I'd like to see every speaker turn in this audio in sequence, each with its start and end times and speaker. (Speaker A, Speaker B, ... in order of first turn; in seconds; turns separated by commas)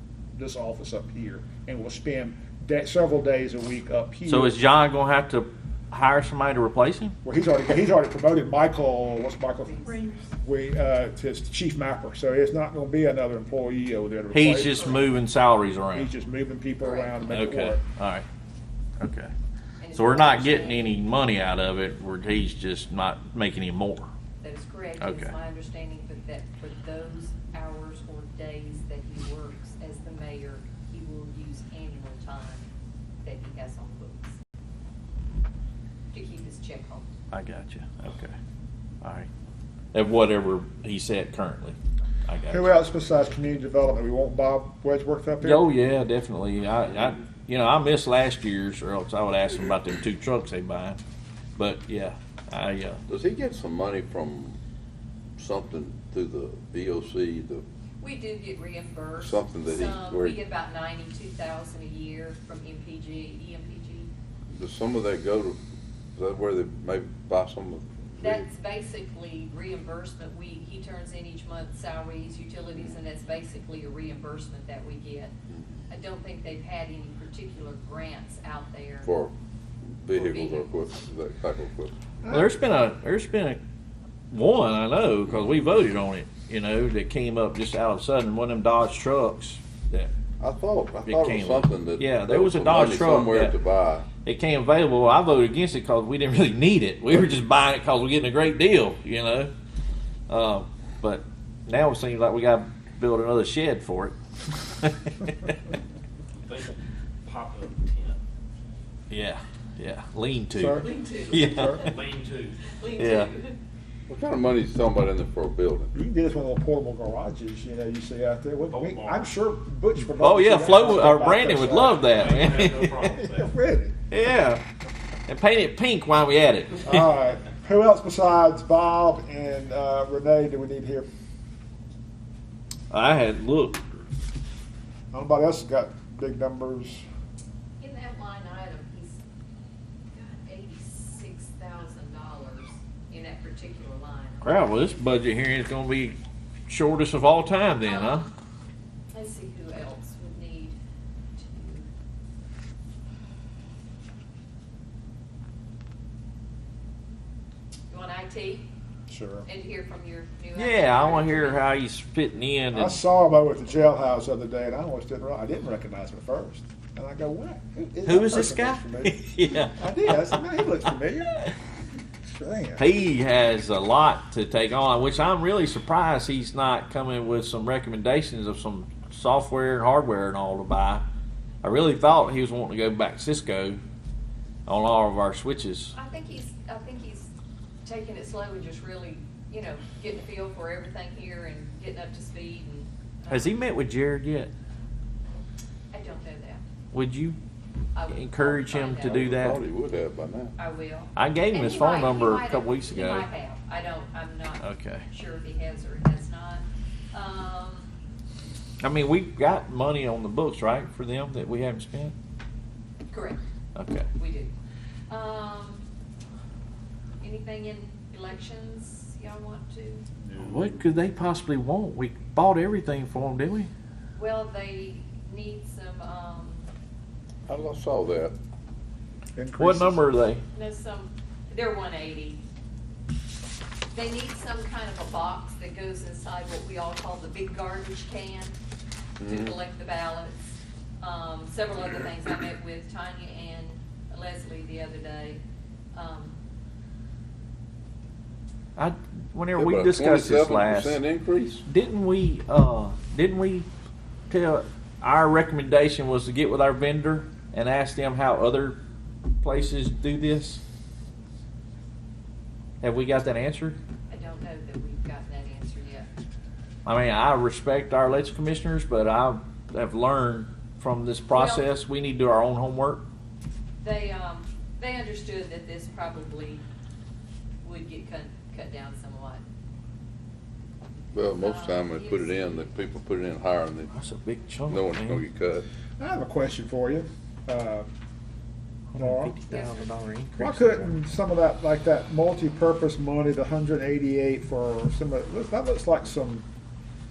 Speaker A: 0.3-4.6, Speaker B: 4.3-7.1, Speaker A: 7.2-15.0, Speaker C: 9.6-10.2, Speaker B: 14.3-16.1, Speaker A: 15.9-17.8, Speaker C: 16.8-17.2, Speaker B: 17.2-18.3, Speaker B: 19.0-19.3, Speaker C: 19.8-20.9, Speaker B: 19.9-24.1, Speaker C: 24.4-32.7, Speaker B: 25.0-25.3, Speaker C: 33.2-34.4, Speaker C: 36.1-37.1, Speaker B: 37.3-38.4, Speaker B: 39.0-39.3, Speaker B: 39.9-42.7, Speaker A: 42.5-45.7, Speaker B: 45.4-51.0, Speaker B: 51.6-53.0, Speaker D: 53.1-54.6, Speaker D: 55.4-57.6, Speaker C: 58.0-64.1, Speaker D: 59.2-60.4, Speaker D: 64.5-65.6, Speaker D: 66.2-68.5, Speaker C: 68.2-75.3, Speaker C: 75.9-79.1, Speaker D: 79.0-79.3, Speaker D: 80.0-81.9, Speaker C: 80.2-80.9, Speaker A: 82.2-82.5, Speaker B: 82.3-83.6, Speaker B: 84.3-90.1, Speaker D: 90.4-94.1, Speaker B: 91.1-93.6, Speaker B: 94.2-99.5, Speaker B: 100.3-105.5, Speaker E: 106.5-108.2, Speaker B: 109.1-112.0, Speaker A: 110.5-111.8, Speaker E: 110.8-113.5, Speaker B: 113.0-113.3, Speaker D: 114.1-115.9, Speaker A: 115.9-122.1, Speaker E: 118.7-119.3, Speaker B: 120.1-123.1, Speaker E: 121.8-123.5, Speaker A: 123.1-124.0, Speaker B: 124.1-124.6, Speaker B: 125.3-127.1, Speaker A: 126.8-131.1, Speaker B: 132.9-133.8, Speaker A: 135.1-137.0, Speaker C: 137.8-139.2, Speaker C: 140.1-145.0, Speaker B: 144.4-148.3, Speaker C: 147.8-148.3, Speaker C: 149.1-150.8, Speaker C: 151.4-151.9, Speaker C: 157.9-158.7, Speaker A: 159.1-159.5, Speaker C: 159.5-161.7, Speaker B: 160.6-163.0, Speaker A: 162.7-171.6, Speaker B: 168.0-170.1, Speaker A: 172.3-172.9, Speaker B: 172.8-181.1, Speaker B: 181.6-183.8, Speaker B: 184.7-185.9, Speaker C: 185.9-187.3, Speaker C: 187.8-193.6, Speaker B: 193.3-194.5, Speaker C: 195.9-196.6, Speaker B: 196.9-197.4, Speaker C: 197.9-199.2, Speaker B: 198.1-199.7, Speaker D: 199.0-200.6, Speaker C: 200.6-207.9, Speaker B: 201.2-203.3, Speaker B: 204.6-205.1, Speaker B: 208.8-212.2, Speaker C: 213.1-213.4, Speaker B: 213.8-214.1, Speaker C: 214.1-214.5, Speaker C: 215.1-215.9, Speaker C: 217.2-220.1, Speaker E: 220.3-220.8, Speaker B: 220.4-223.7, Speaker C: 224.2-226.7, Speaker D: 227.5-228.3, Speaker A: 229.4-230.0, Speaker B: 229.6-230.4, Speaker C: 230.5-232.4, Speaker C: 233.9-238.6, Speaker D: 239.2-239.6, Speaker C: 239.2-245.4, Speaker C: 245.9-246.4, Speaker B: 248.8-251.0, Speaker D: 249.6-251.6, Speaker B: 251.7-253.7, Speaker B: 254.3-258.8, Speaker B: 259.4-260.6, Speaker B: 262.8-263.8, Speaker C: 264.1-266.1, Speaker B: 266.9-273.1, Speaker C: 271.3-271.7, Speaker C: 273.8-276.6, Speaker C: 277.6-279.4, Speaker D: 281.1-283.9, Speaker C: 281.4-282.7, Speaker B: 283.9-285.2, Speaker D: 284.7-285.7, Speaker A: 286.0-287.9, Speaker B: 288.9-291.0, Speaker A: 289.0-289.4, Speaker C: 289.5-289.9, Speaker A: 290.4-296.5